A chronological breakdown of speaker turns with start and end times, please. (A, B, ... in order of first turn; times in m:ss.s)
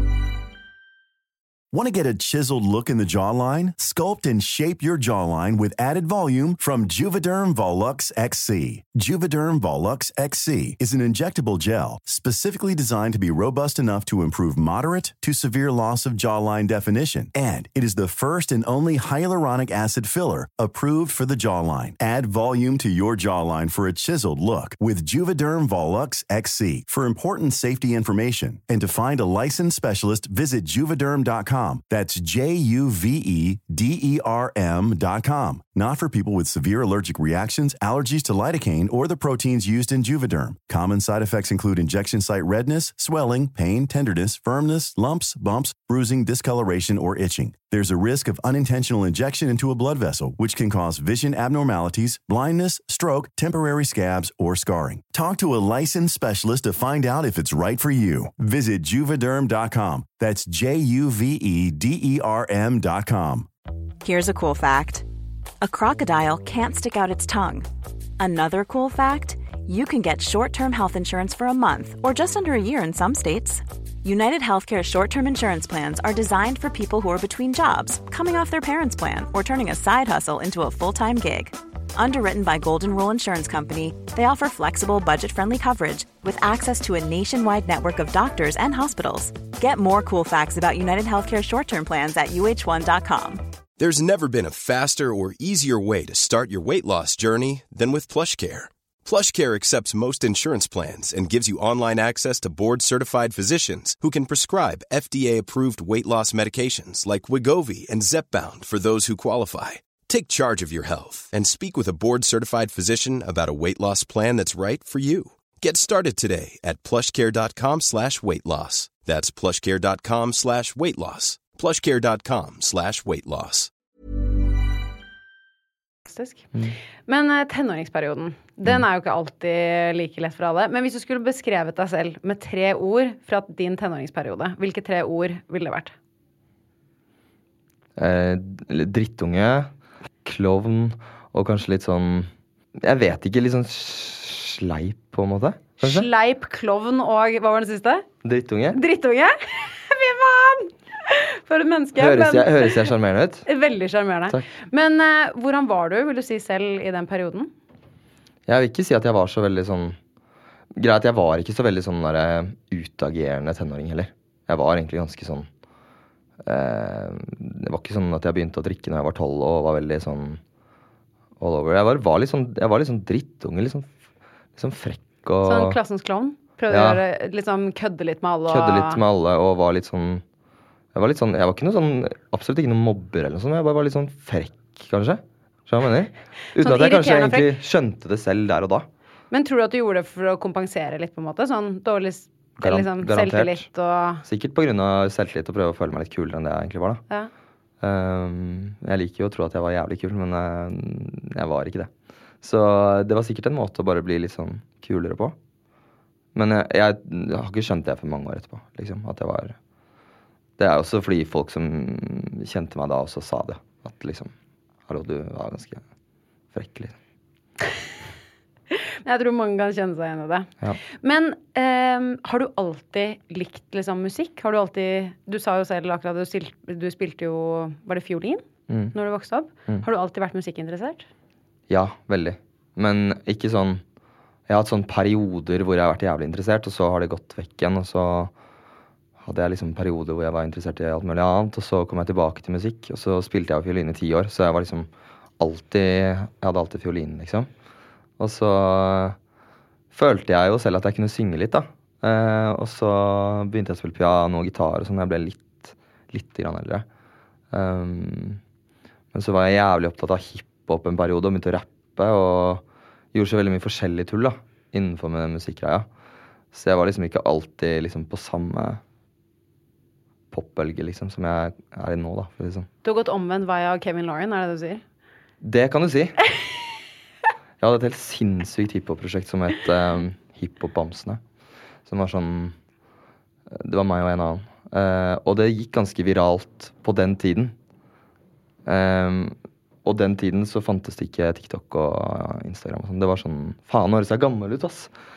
0:01.7-1:03.5 A
1:04.0-1:05.1 B
1:05.6-1:07.7 B
1:08.2-1:33.4 B
1:33.8-2:03.7 C
2:06.1-2:06.5 D
2:07.1-2:15.9 D
2:18.0-2:19.7 E
2:20.2-2:26.1 E
2:25.8-2:28.1 D
2:28.2-2:28.8 E
2:28.7-2:32.8 D
2:32.0-2:33.5 E
2:33.5-2:37.5 D
2:38.5-2:40.0 E
2:40.8-2:45.5 E
2:46.4-2:50.4 E
2:51.4-2:53.9 E
2:54.6-2:55.8 E
2:55.4-2:59.0 D
2:56.7-2:57.0 E
2:58.5-3:00.2 E
3:00.9-3:08.9 E
3:06.6-3:07.5 D
3:09.3-3:14.2 D
3:12.6-3:13.6 E
3:14.2-3:17.0 E
3:17.8-3:21.9 E
3:22.4-3:25.4 E
3:26.3-3:29.6 E
3:30.6-3:34.3 E
3:34.9-3:35.8 E
3:36.5-3:37.0 E
3:38.7-3:51.1 D
3:48.7-3:49.0 E
3:51.7-3:53.8 E
3:54.5-3:58.3 E
3:59.2-4:07.5 E
4:08.2-4:09.2 E
4:09.9-4:16.8 E
4:17.5-4:18.4 E
4:19.1-4:25.9 E
4:26.5-4:28.8 E
4:30.3-4:32.7 E
4:32.8-4:34.8 D
4:35.4-4:36.2 E
4:37.6-4:41.2 E
4:41.9-4:42.6 E
4:43.6-4:47.5 E
4:48.7-4:54.9 E